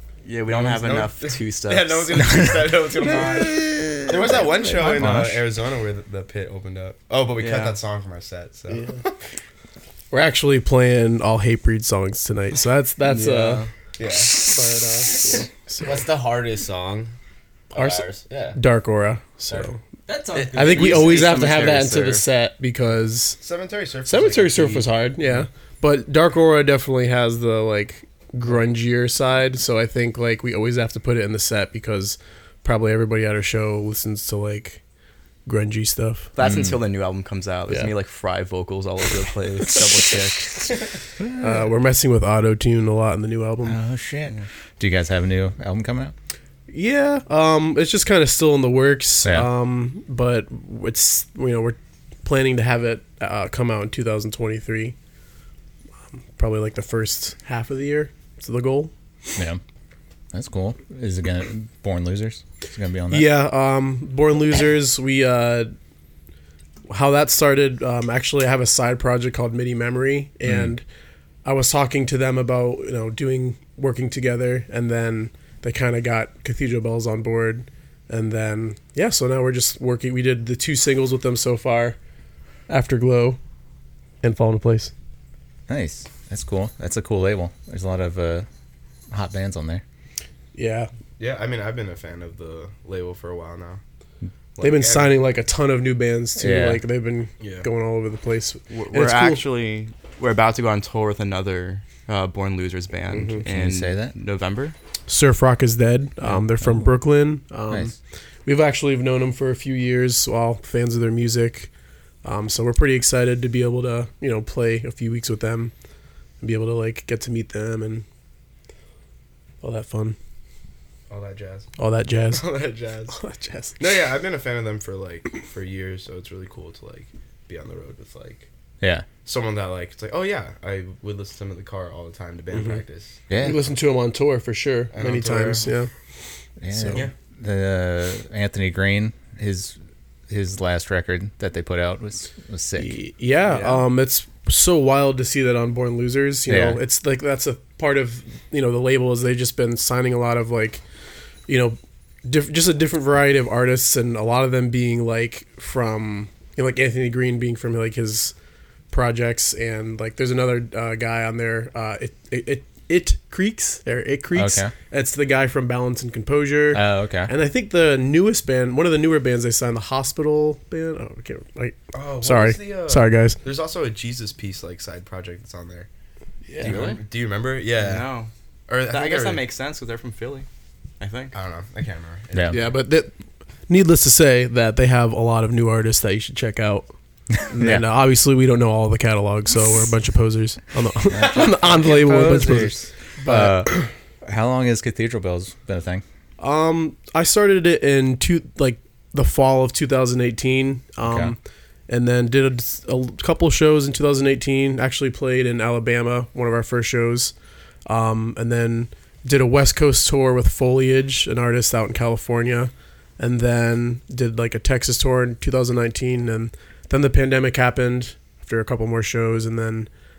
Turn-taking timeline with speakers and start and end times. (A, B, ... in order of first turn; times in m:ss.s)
0:00.2-0:02.4 A
0:00.5-0:09.1 B
0:02.2-0:05.5 C
0:07.4-0:07.8 A
0:08.7-0:09.0 D
0:10.1-0:13.6 D
0:13.0-0:13.7 A
0:14.0-0:14.4 B
0:14.4-0:15.9 D
0:15.8-0:17.1 E
0:17.7-0:18.6 E
0:17.7-0:18.0 D
0:18.5-0:19.8 D
0:19.5-0:21.0 E
0:20.3-0:22.2 A
0:20.5-0:22.0 B
0:20.5-0:23.4 D
0:23.4-0:24.9 B
0:24.0-0:34.8 D
0:35.4-0:36.3 D
0:36.4-0:40.8 A
0:36.4-0:36.8 C
0:41.2-0:41.7 C
0:41.4-0:43.8 D
0:43.6-0:46.1 C
0:46.7-0:54.9 D
0:49.2-0:49.5 C
0:56.3-0:58.9 D
1:00.3-1:03.3 C
1:03.1-1:05.7 D
1:06.9-1:10.8 D
1:10.4-1:10.7 C
1:11.4-1:22.0 D
1:22.7-1:23.4 D
1:24.2-1:24.9 D
1:25.7-1:28.5 C
1:29.1-1:29.8 C
1:30.5-1:30.9 D
1:31.2-1:33.8 B
1:34.6-1:35.1 B
1:34.6-1:39.4 D
1:36.4-1:36.8 C
1:37.4-1:37.7 B
1:38.7-1:44.7 A
1:43.1-1:43.4 B
1:43.4-1:44.1 C
1:45.1-1:51.7 D
1:46.2-1:46.9 C
1:52.2-1:55.7 D
1:56.4-1:58.0 D
1:59.6-2:00.2 D
2:01.1-2:01.7 B
2:01.8-2:02.4 D
2:02.3-2:03.2 B
2:03.1-2:03.8 D
2:03.8-2:08.5 B
2:08.8-2:09.0 C
2:09.2-2:13.2 B
2:12.5-2:12.8 D
2:13.3-2:13.6 C
2:13.4-2:15.9 D
2:14.9-2:15.8 B
2:16.6-2:19.8 C
2:16.7-2:17.0 D
2:20.3-2:23.0 C
2:22.7-2:30.8 D
2:23.4-2:23.8 A
2:26.4-2:26.8 C
2:31.5-2:38.3 D
2:38.9-2:53.4 D
2:44.3-2:44.7 C
2:46.7-2:47.3 C
2:51.9-2:55.9 B
2:56.5-2:56.8 D
2:56.6-2:57.0 C
2:56.6-2:58.1 B
2:57.8-2:58.3 A
2:58.7-2:59.4 B
2:58.9-3:00.5 A
3:01.0-3:01.3 A
3:01.3-3:02.8 B
3:02.3-3:02.6 C
3:02.5-3:03.1 D
3:03.7-3:06.9 D
3:07.4-3:07.9 C
3:07.5-3:13.9 D
3:11.1-3:16.0 C
3:16.4-3:27.3 D
3:21.0-3:21.3 C
3:27.8-3:39.9 D